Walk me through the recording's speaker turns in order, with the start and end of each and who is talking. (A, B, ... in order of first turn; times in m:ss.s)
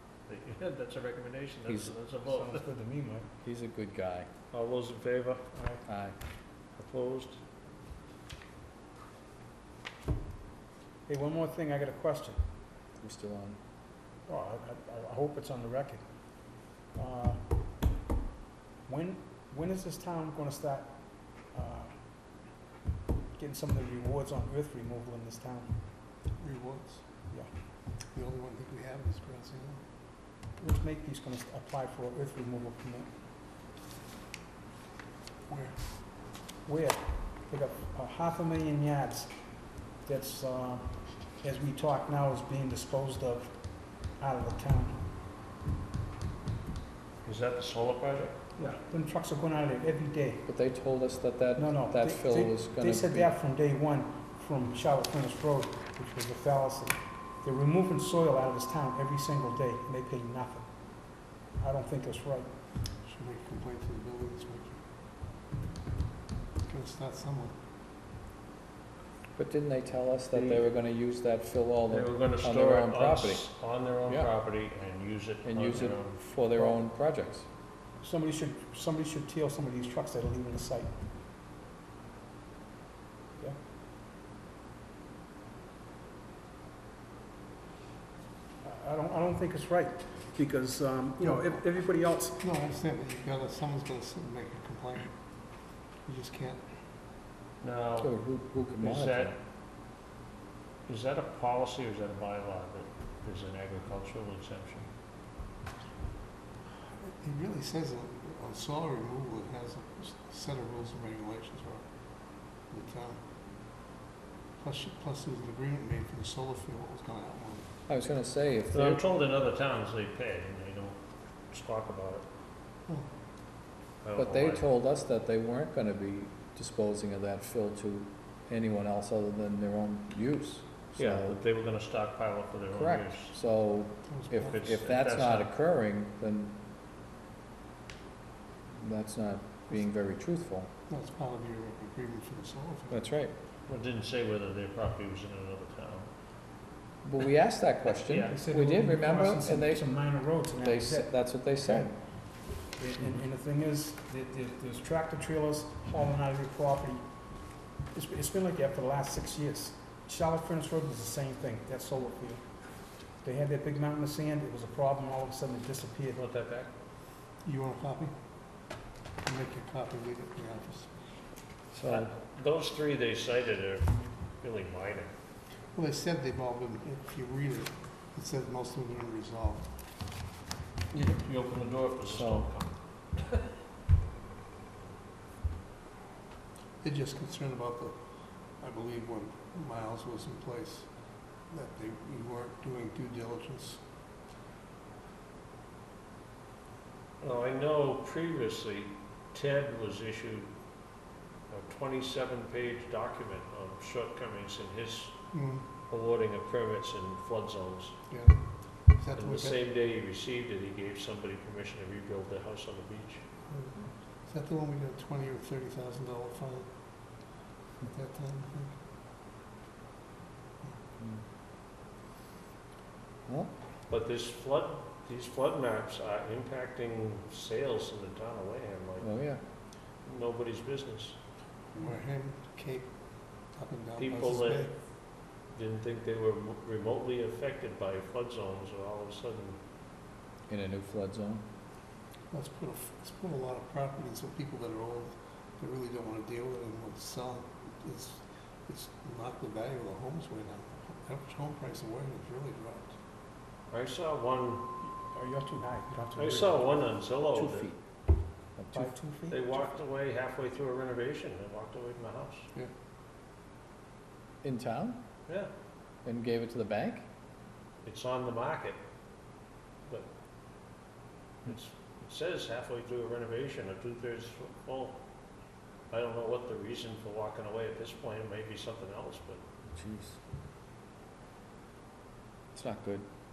0:00.3-0:02.6 A
0:01.6-0:01.9 B
0:02.2-0:03.3 C
0:03.4-0:04.3 B
0:04.5-0:05.5 A
0:05.5-0:05.8 C
0:05.8-0:06.1 B
0:06.8-0:07.4 A
0:11.1-0:12.4 C
0:13.0-0:13.6 B
0:14.3-0:16.0 C
0:16.9-0:17.4 C
0:18.8-0:21.9 C
0:23.3-0:25.8 C
0:26.4-0:27.0 D
0:28.1-0:29.8 D
0:30.6-0:33.1 C
0:35.5-0:35.8 D
0:36.6-0:45.1 C
0:47.2-0:48.4 A
0:48.6-0:50.4 C
0:50.4-0:53.3 B
0:51.6-1:02.5 C
1:03.0-1:04.8 D
1:06.6-1:07.5 D
1:09.4-1:13.5 B
1:10.3-1:10.6 A
1:11.9-1:16.2 A
1:14.0-1:14.3 B
1:15.4-1:17.4 B
1:18.0-1:21.0 C
1:28.6-1:32.4 C
1:31.2-1:31.5 D
1:32.4-1:35.2 D
1:36.0-1:36.6 D
1:37.6-1:38.2 A
1:38.0-1:39.3 B
1:38.8-1:39.4 A
1:40.9-1:44.9 A
1:47.0-1:51.8 D
1:52.7-1:53.2 D
1:54.6-1:57.7 D
1:57.9-1:59.0 B
1:58.7-2:01.0 A
2:01.5-2:02.2 A
2:04.0-2:04.6 A
2:04.1-2:11.4 B
2:11.0-2:13.3 A
2:12.7-2:16.6 B
2:14.1-2:14.5 D
2:14.5-2:15.5 A
2:18.8-2:20.7 B
2:20.9-2:23.1 D
2:22.9-2:23.3 B
2:23.7-2:26.1 A
2:27.0-2:30.0 B
2:27.8-2:28.4 A
2:28.3-2:37.0 C
2:30.6-2:31.9 B
2:37.9-2:46.2 C
2:46.1-2:46.7 A
2:47.4-2:48.1 D
2:49.2-2:50.9 D
2:51.7-2:52.1 B
2:51.9-2:55.1 A
2:55.7-2:59.7 D
3:00.9-3:03.4 A
3:02.1-3:02.5 B
3:06.8-3:08.0 D
3:08.6-3:10.9 D
3:11.5-3:13.8 D
3:17.2-3:20.5 A
3:21.5-3:25.2 A
3:25.3-3:25.6 D
3:25.9-3:28.0 A
3:28.1-3:29.6 D
3:29.2-3:33.2 A
3:33.5-3:36.7 D
3:37.8-3:38.8 D
3:43.3-3:43.5 B
3:43.9-3:49.1 A
3:49.0-3:49.4 B
3:50.0-3:51.2 A
3:51.7-3:53.0 D
3:53.5-3:54.7 D
3:54.0-3:54.7 A
3:55.5-3:59.6 A
4:00.5-4:01.4 B
4:02.3-4:12.9 D
4:13.7-4:14.6 A
4:14.8-4:16.8 C
4:16.2-4:17.7 A
4:17.3-4:17.8 B
4:18.6-4:18.9 B
4:18.7-4:19.6 C
4:19.3-4:22.4 A
4:24.4-4:25.0 B
4:26.0-4:27.0 B
4:27.8-4:28.8 A
4:31.4-4:35.0 A
4:35.9-4:39.4 A
4:39.7-4:40.2 B
4:42.5-4:43.0 B